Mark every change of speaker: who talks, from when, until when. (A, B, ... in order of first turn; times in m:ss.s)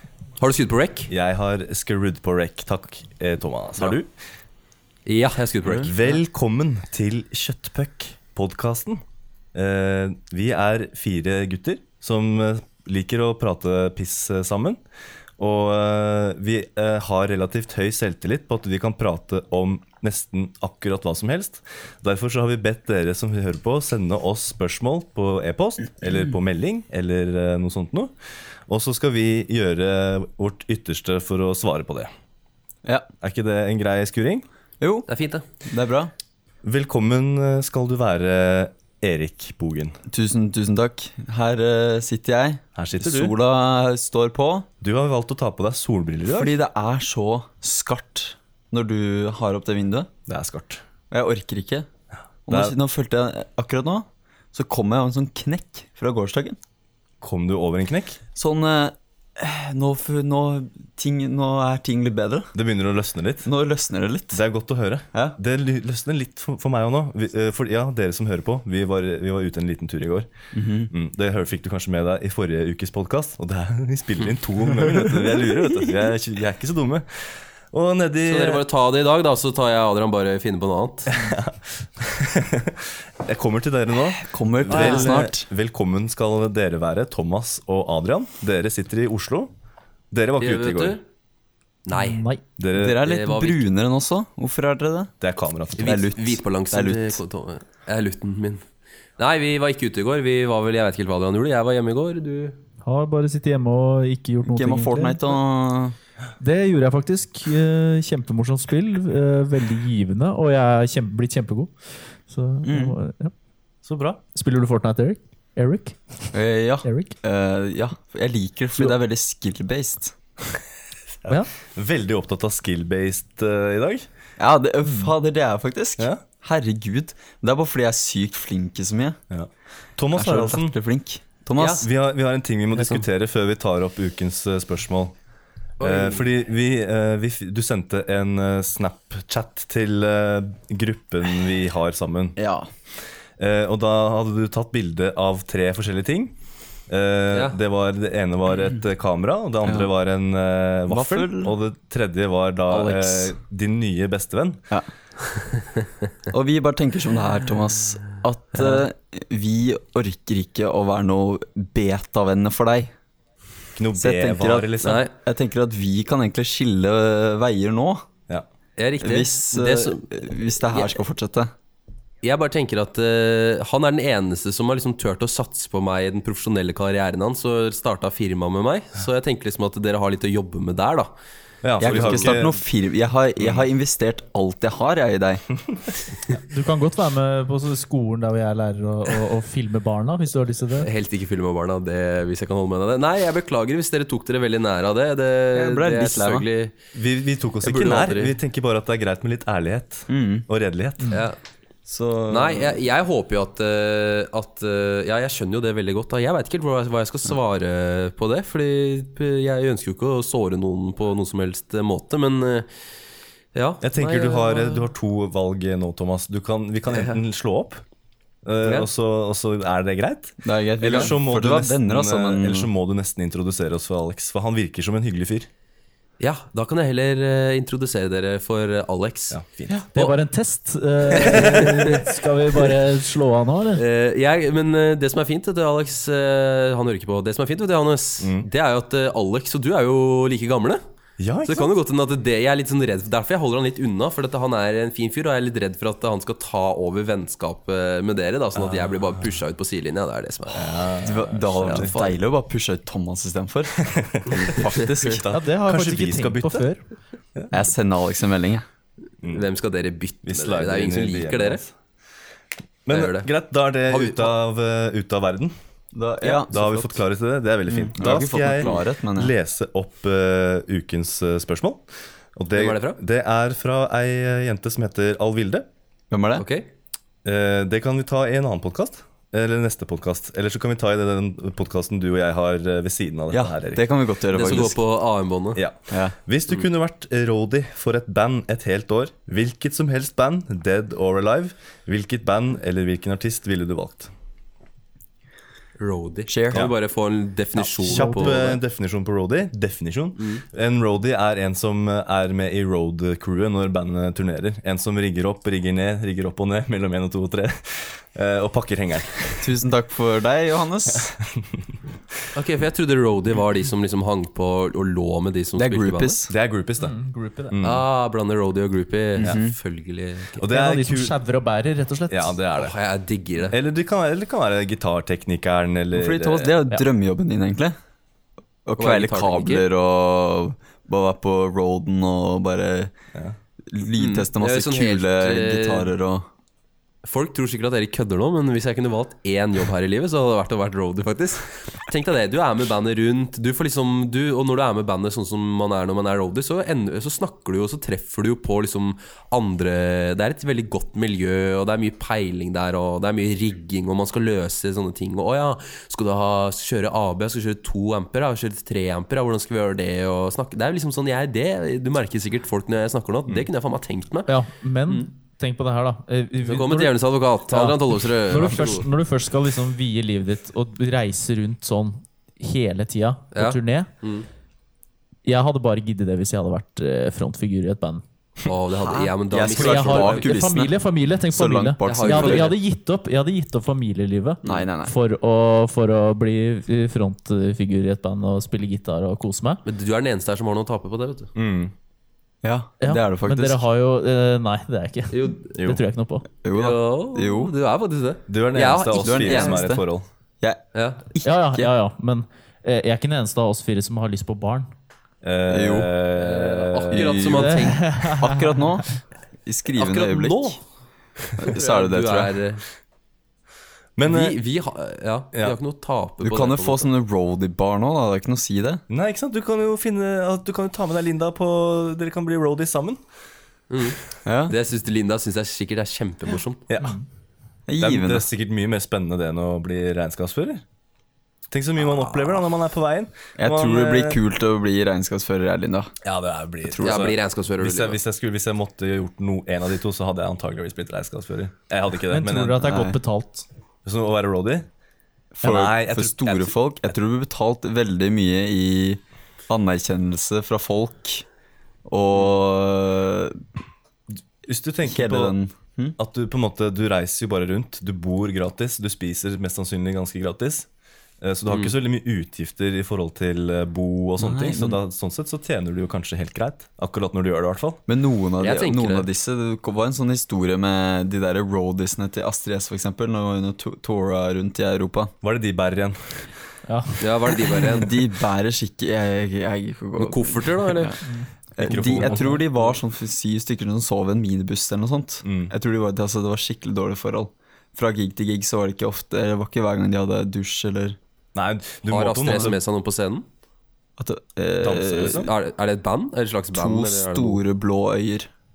0:00.4-0:01.1 A
0:01.1-0:04.1 B
0:05.1-0:06.1 A
0:05.8-0:09.0 B
0:09.5-0:14.8 B
0:15.4-0:28.1 B
0:28.7-0:32.1 B
0:33.2-0:34.4 B
0:34.8-0:35.1 C
0:35.1-0:35.4 A
0:35.6-0:36.1 C
0:36.6-0:40.0 B
0:40.1-0:44.7 C
0:42.8-0:43.3 B
0:44.8-0:46.5 B
0:46.3-0:50.1 C
0:50.3-0:50.8 B
0:51.1-0:51.9 C
0:52.5-0:56.6 C
0:52.5-0:52.8 B
0:57.2-0:58.2 B
0:58.4-1:02.5 C
1:02.5-1:03.5 B
1:03.4-1:04.4 C
1:04.3-1:10.3 B
1:10.5-1:10.9 C
1:10.9-1:18.6 B
1:18.2-1:21.2 A
1:21.1-1:29.5 B
1:24.1-1:25.5 C
1:24.7-1:25.2 A
1:30.1-1:31.0 B
1:30.4-1:31.0 A
1:31.9-1:32.2 A
1:31.9-1:32.4 D
1:32.6-1:33.0 B
1:32.8-1:35.1 C
1:33.0-1:33.7 A
1:35.2-1:36.0 B
1:35.8-1:37.2 C
1:35.8-1:38.6 A
1:39.2-1:42.6 A
1:42.8-1:45.4 D
1:44.4-1:46.0 C
1:46.4-1:53.3 D
1:52.6-1:53.0 C
1:53.8-1:54.2 B
1:54.4-1:57.2 D
1:56.3-2:00.2 C
2:01.2-2:04.1 B
2:04.4-2:09.2 C
2:06.0-2:06.2 B
2:09.3-2:10.8 B
2:10.2-2:11.9 C
2:11.6-2:11.9 A
2:11.8-2:15.1 B
2:15.8-2:16.3 A
2:15.8-2:22.4 B
2:22.4-2:22.7 C
2:23.4-2:26.3 B
2:26.9-2:34.6 B
2:27.3-2:27.6 A
2:29.6-2:29.9 C
2:30.9-2:31.6 C
2:32.7-2:33.3 C
2:36.3-2:42.9 C
2:38.6-2:38.8 A
2:43.8-2:45.1 B
2:44.0-2:48.1 C
2:44.8-2:45.1 A
2:48.8-2:50.1 A
2:49.0-2:51.5 C
2:50.7-2:51.0 A
2:52.2-3:01.1 A
3:01.6-3:02.6 B
3:01.8-3:05.4 C
3:01.8-3:02.3 A
3:03.4-3:03.6 B
3:06.4-3:10.9 D
3:10.8-3:16.8 A
3:15.5-3:16.5 C
3:17.0-3:21.1 B
3:17.6-3:18.4 A
3:20.1-3:20.5 C
3:21.0-3:21.3 D
3:21.1-3:21.4 A
3:21.9-3:22.8 C
3:22.3-3:32.7 A
3:33.5-3:34.9 A
3:33.8-3:37.8 B
3:36.9-3:37.2 A
3:38.4-3:45.5 B
3:40.4-3:42.7 C
3:46.2-3:49.4 A
3:49.3-3:49.8 B
3:49.9-3:53.8 D
3:51.1-3:52.8 A
3:53.8-4:00.8 A
3:58.2-3:58.5 B
4:01.2-4:01.7 B
4:01.4-4:10.9 A
4:08.6-4:09.2 B
4:10.5-4:12.0 B
4:11.0-4:15.3 C
4:11.6-4:12.2 A
4:13.8-4:16.7 B
4:15.3-4:16.8 D
4:17.5-4:18.7 C
4:19.3-4:21.6 A
4:20.2-4:21.7 B
4:22.9-4:25.5 B
4:22.9-4:23.3 A
4:23.9-4:24.3 A
4:25.9-4:27.0 C
4:26.3-4:31.8 B
4:27.7-4:29.3 C
4:32.4-4:35.7 B
4:32.5-4:33.0 A
4:36.1-4:36.4 C
4:36.4-4:36.7 A
4:37.2-4:43.9 B
4:43.3-4:44.8 C
4:44.3-4:45.6 A
4:45.6-4:54.1 B
4:45.9-4:46.2 C
4:55.8-4:58.6 A
4:56.3-4:56.7 C
4:57.8-4:58.6 D
4:57.8-5:09.4 B
5:00.2-5:00.4 A
5:09.4-5:11.1 C
5:11.0-5:11.6 B
5:12.4-5:16.2 A
5:15.6-5:16.3 C
5:16.3-5:17.0 B
5:16.8-5:17.6 D
5:17.5-5:17.8 B
5:17.6-5:20.4 A
5:19.2-5:19.6 C
5:20.4-5:21.2 B
5:20.5-5:22.4 D
5:22.1-5:22.8 B
5:22.6-5:23.6 A
5:23.5-5:26.6 B
5:26.0-5:27.8 C
5:28.7-5:32.9 C
5:28.8-5:29.7 A
5:33.7-5:36.3 C
5:34.0-5:35.9 A
5:37.0-6:05.1 A
6:04.3-6:06.9 D
6:06.4-6:08.9 A
6:07.5-6:13.9 D
6:13.3-6:14.3 A
6:15.2-6:18.0 D
6:18.4-6:20.4 A
6:18.7-6:20.8 C
6:19.5-6:29.6 D
6:21.3-6:22.6 C
6:21.8-6:22.6 A
6:24.4-6:25.0 C
6:29.6-6:31.3 A
6:31.4-6:31.7 B
6:32.4-6:33.7 C
6:32.8-6:36.3 D
6:35.1-6:35.5 A
6:36.4-6:37.5 C
6:36.5-6:39.7 A
6:38.3-6:40.1 B
6:38.9-6:39.8 C
6:40.4-6:41.7 C
6:40.7-6:41.0 A
6:41.2-6:44.7 D
6:45.2-6:47.3 B
6:45.5-6:45.9 C
6:46.2-6:47.9 A
6:46.9-6:50.6 C
6:47.4-6:48.7 D
6:49.8-6:50.6 A
6:51.4-6:52.6 A
6:51.4-6:52.4 C
6:54.0-6:54.4 B
6:54.1-6:56.9 A
6:56.2-6:58.8 C
6:58.9-7:03.0 B
7:03.7-7:06.6 A
7:04.2-7:04.5 C
7:06.7-7:07.0 B
7:07.7-7:08.3 C
7:07.8-7:10.6 B
7:11.5-7:14.2 B
7:11.8-7:12.4 A
7:13.4-7:15.9 C
7:16.0-7:22.7 B
7:16.6-7:17.0 C
7:16.8-7:18.0 A
7:22.1-7:23.5 D
7:22.6-7:23.0 C
7:23.8-7:24.7 B
7:25.3-7:31.3 C
7:25.4-7:26.6 B
7:31.9-7:33.4 C
7:34.5-7:35.4 B
7:34.8-7:36.0 C
7:36.0-7:40.7 B
7:41.2-7:47.8 B
7:44.2-7:44.8 C
7:47.9-7:55.1 C
7:48.4-7:49.1 A
7:55.2-7:56.3 B
7:56.7-7:57.6 D
7:57.0-7:58.0 A
7:57.6-8:01.0 C
8:00.0-8:01.0 A
8:01.0-8:01.3 D
8:01.6-8:11.0 C
8:01.6-8:02.5 B
8:05.2-8:05.5 B
8:11.4-8:12.6 B
8:11.9-8:13.3 A
8:14.0-8:15.3 C
8:14.6-8:15.3 B
8:15.1-8:17.4 A
8:16.5-8:18.3 C